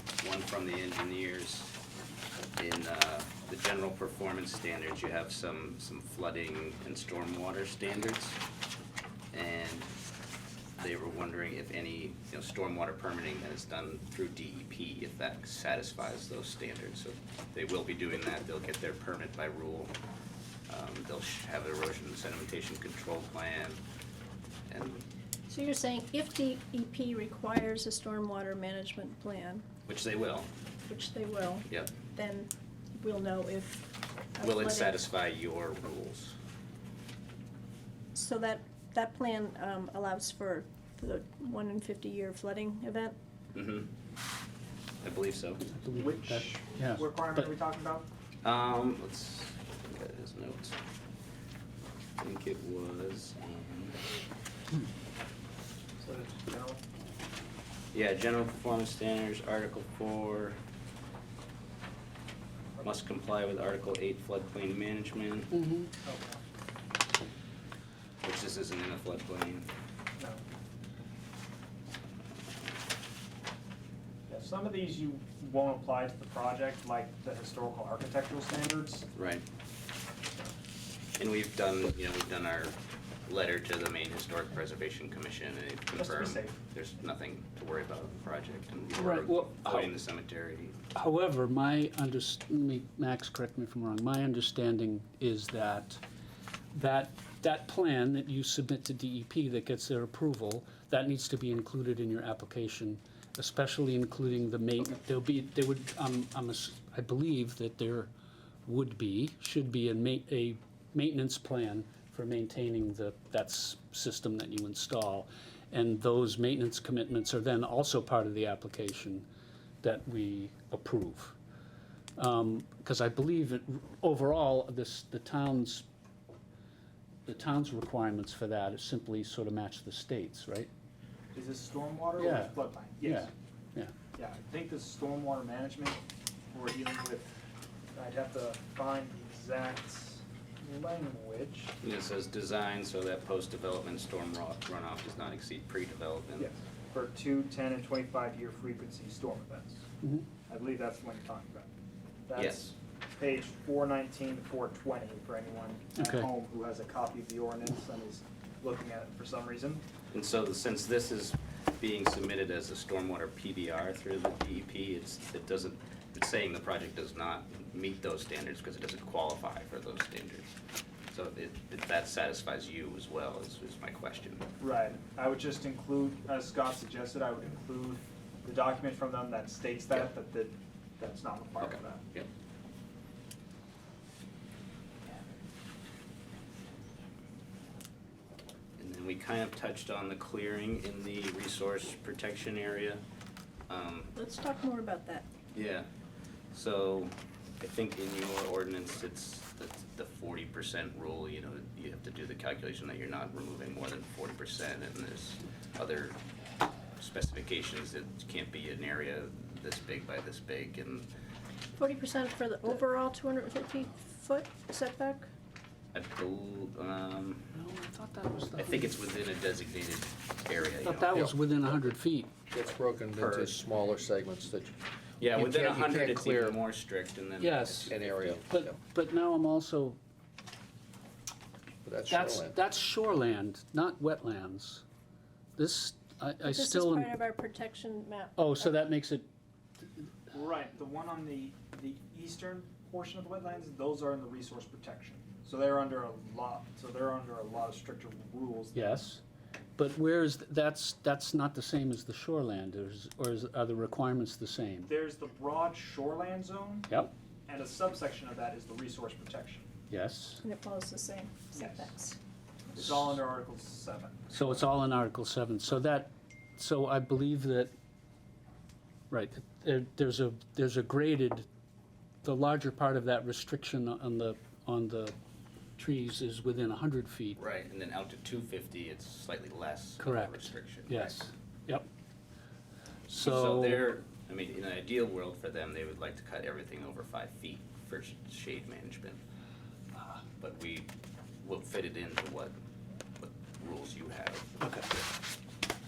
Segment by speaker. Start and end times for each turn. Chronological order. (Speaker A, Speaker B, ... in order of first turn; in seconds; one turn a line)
Speaker A: 0.2-1.8
Speaker A: 2.6-8.4
Speaker A: 9.3-9.9
Speaker A: 10.8-19.9
Speaker A: 20.7-23.8
Speaker A: 24.7-25.1
Speaker B: 25.5-29.6
Speaker A: 29.9-30.5
Speaker B: 30.9-35.0
Speaker A: 34.4-36.4
Speaker B: 38.1-43.2
Speaker A: 43.5-43.9
Speaker A: 45.0-45.6
Speaker C: 45.6-47.5
Speaker D: 45.9-48.1
Speaker A: 48.4-50.8
Speaker A: 52.2-54.0
Speaker D: 56.0-56.8
Speaker A: 57.9-60.6
Speaker A: 62.8-65.5
Speaker C: 65.5-65.9
Speaker D: 66.0-66.4
Speaker A: 68.2-69.7
Speaker D: 70.2-70.4
Speaker D: 74.3-79.1
Speaker A: 79.2-79.5
Speaker A: 81.2-90.8
Speaker D: 86.0-86.6
Speaker C: 89.0-89.9
Speaker C: 91.0-96.0
Speaker C: 96.7-108.1
Speaker C: 108.7-119.3
Speaker C: 119.8-121.3
Speaker C: 122.2-125.9
Speaker C: 127.3-130.7
Speaker D: 131.3-133.3
Speaker C: 132.2-133.9
Speaker D: 134.2-136.0
Speaker D: 136.5-137.4
Speaker D: 138.0-141.7
Speaker A: 141.8-146.5
Speaker D: 146.4-149.8
Speaker C: 150.0-150.3
Speaker D: 150.5-151.7
Speaker D: 152.3-159.8
Speaker A: 152.4-152.7
Speaker C: 155.9-156.3
Speaker A: 160.1-170.6
Speaker A: 171.1-174.4
Speaker D: 174.6-182.0
Speaker A: 181.6-182.3
Speaker A: 188.8-193.0
Speaker A: 193.7-194.1
Speaker B: 194.2-195.3
Speaker A: 195.5-195.9
Speaker A: 196.5-206.2
Speaker A: 207.0-211.1
Speaker B: 211.8-215.3
Speaker A: 215.9-217.5
Speaker C: 217.6-218.9
Speaker A: 218.6-221.2
Speaker C: 220.8-222.3
Speaker E: 222.5-224.8
Speaker A: 223.2-223.5
Speaker A: 225.2-228.4
Speaker E: 225.4-226.6
Speaker C: 227.4-227.9
Speaker E: 227.8-228.8
Speaker C: 228.5-230.0
Speaker E: 231.8-232.6
Speaker C: 232.1-234.8
Speaker C: 235.6-237.2
Speaker B: 236.4-238.7
Speaker C: 238.4-239.3
Speaker D: 240.3-249.1
Speaker C: 248.7-249.2
Speaker C: 249.8-254.9
Speaker D: 254.9-256.9
Speaker D: 257.5-259.7
Speaker C: 259.9-260.4
Speaker B: 260.4-262.2
Speaker D: 261.6-261.9
Speaker D: 262.7-264.6
Speaker C: 264.3-267.7
Speaker C: 269.1-271.5
Speaker C: 272.2-275.1
Speaker C: 275.8-277.4
Speaker A: 277.4-281.1
Speaker C: 280.0-281.9
Speaker A: 283.1-289.2
Speaker C: 283.1-283.9
Speaker A: 290.4-290.9
Speaker A: 291.4-292.5
Speaker A: 293.2-294.6
Speaker C: 294.6-294.9